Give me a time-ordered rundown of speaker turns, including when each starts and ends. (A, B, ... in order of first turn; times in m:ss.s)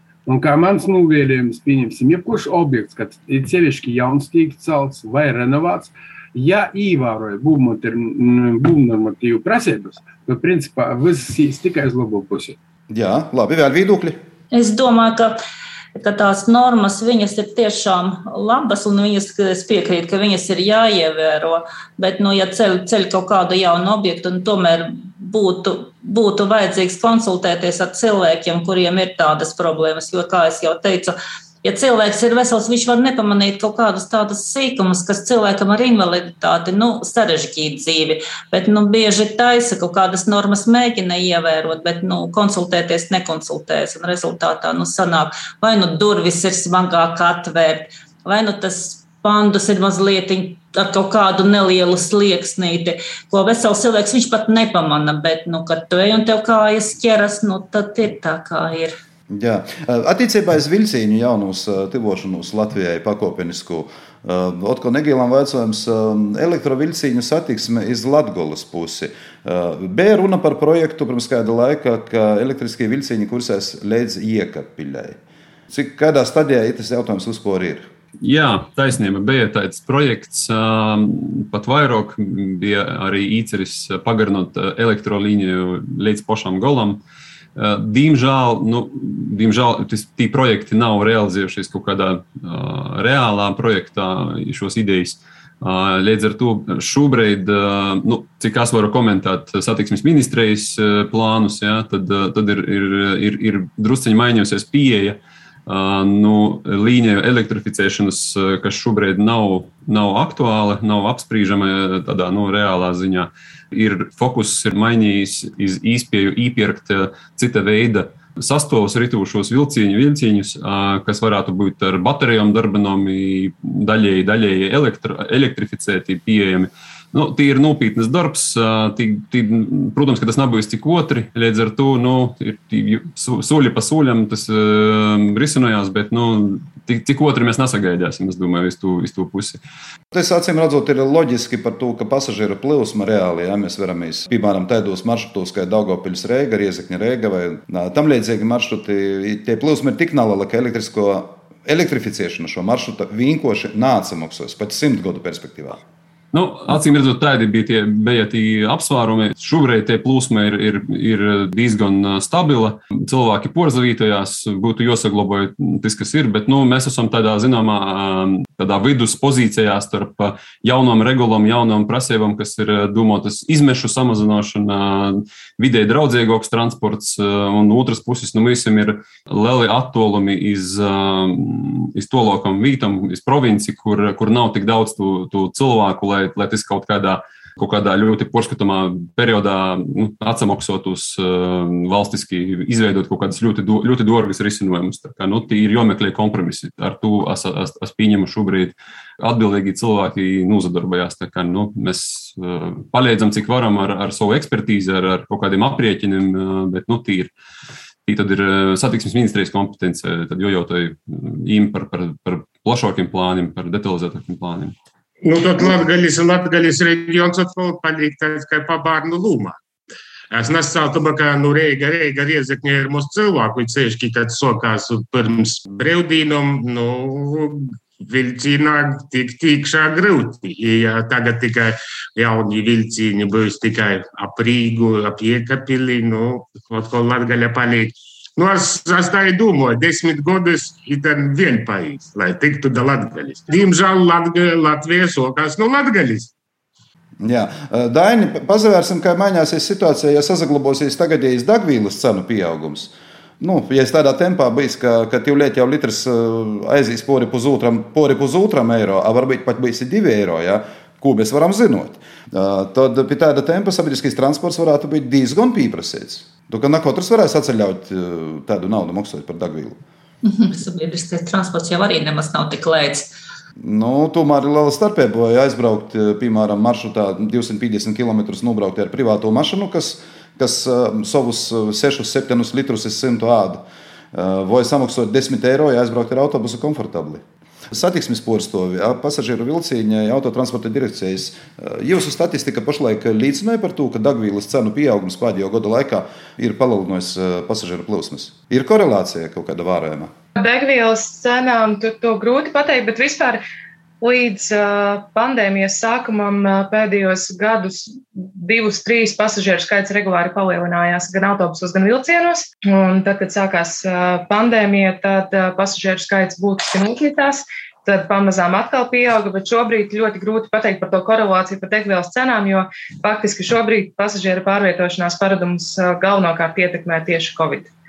0:00.2-0:12.6 A
0:12.9-0:14.2 B
0:14.5-0:15.4 C
0:16.0-0:58.9 C
0:59.3-1:17.9 B
1:18.2-1:27.0 D
1:27.6-2:19.6 D
2:20.1-2:35.8 B
2:36.3-3:27.3 D
3:28.0-3:34.8 D
3:35.2-3:39.6 E
3:40.3-4:06.3 E
4:07.2-4:29.8 B
4:30.2-4:33.1 C
4:33.6-5:00.1 B
5:00.4-5:03.4 F
5:04.0-5:27.7 F